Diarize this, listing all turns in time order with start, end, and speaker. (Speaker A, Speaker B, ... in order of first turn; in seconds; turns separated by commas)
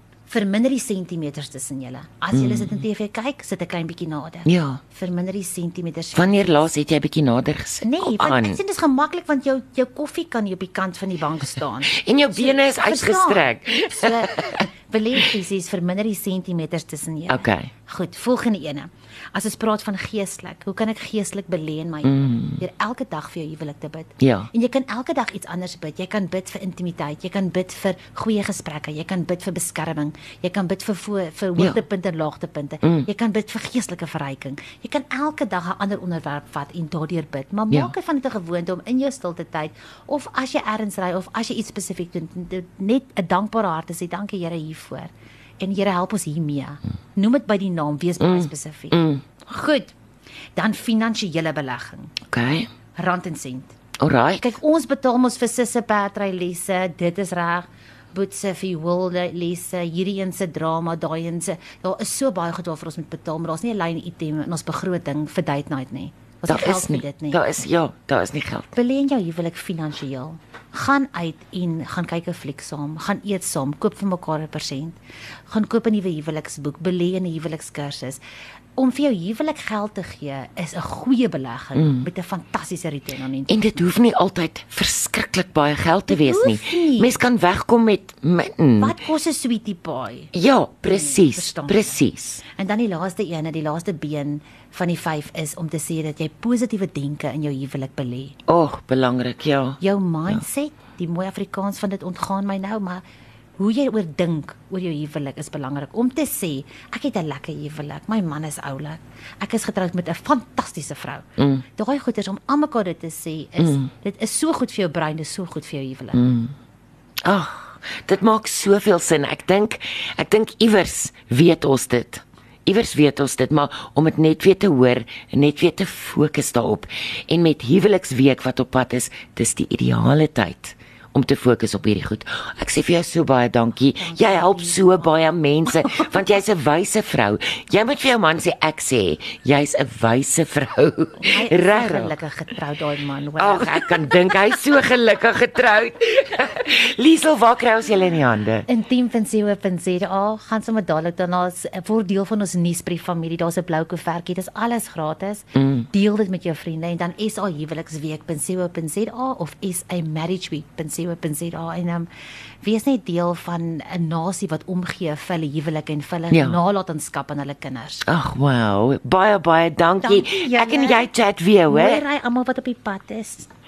Speaker A: 0.3-6.7, Speaker B: 2.3-2.8, Speaker B: 4.5-4.8, Speaker B: 6.1-8.6, Speaker A: 7.8-49.9, Speaker B: 11.9-14.7, Speaker B: 17.3-17.7, Speaker B: 22.0-22.6, Speaker B: 24.2-24.5, Speaker B: 32.8-33.1, Speaker B: 48.2-49.2, Speaker A: 50.5-52.1, Speaker B: 52.3-52.7, Speaker A: 53.0-53.7, Speaker B: 54.0-54.5, Speaker A: 54.4-67.4, Speaker B: 66.5-68.7, Speaker A: 68.7-75.0, Speaker A: 75.5-78.2, Speaker A: 78.8-83.8, Speaker B: 81.8-82.1, Speaker B: 83.5-89.0, Speaker A: 86.1-87.2, Speaker A: 88.8-90.3, Speaker B: 90.3-92.4, Speaker A: 90.8-98.3, Speaker B: 98.5-99.8, Speaker A: 99.8-103.0, Speaker A: 103.6-111.2, Speaker B: 111.4-111.6, Speaker A: 111.8-116.2, Speaker B: 113.6-113.9, Speaker B: 116.1-116.5, Speaker B: 117.2-142.2, Speaker A: 133.9-135.1, Speaker A: 135.8-136.2, Speaker A: 141.2-144.3, Speaker B: 143.4-148.7, Speaker A: 148.7-162.1, Speaker B: 155.6-155.9, Speaker A: 162.6-168.1, Speaker B: 166.3-166.6, Speaker B: 168.1-172.0, Speaker A: 170.0-171.1, Speaker A: 171.7-173.5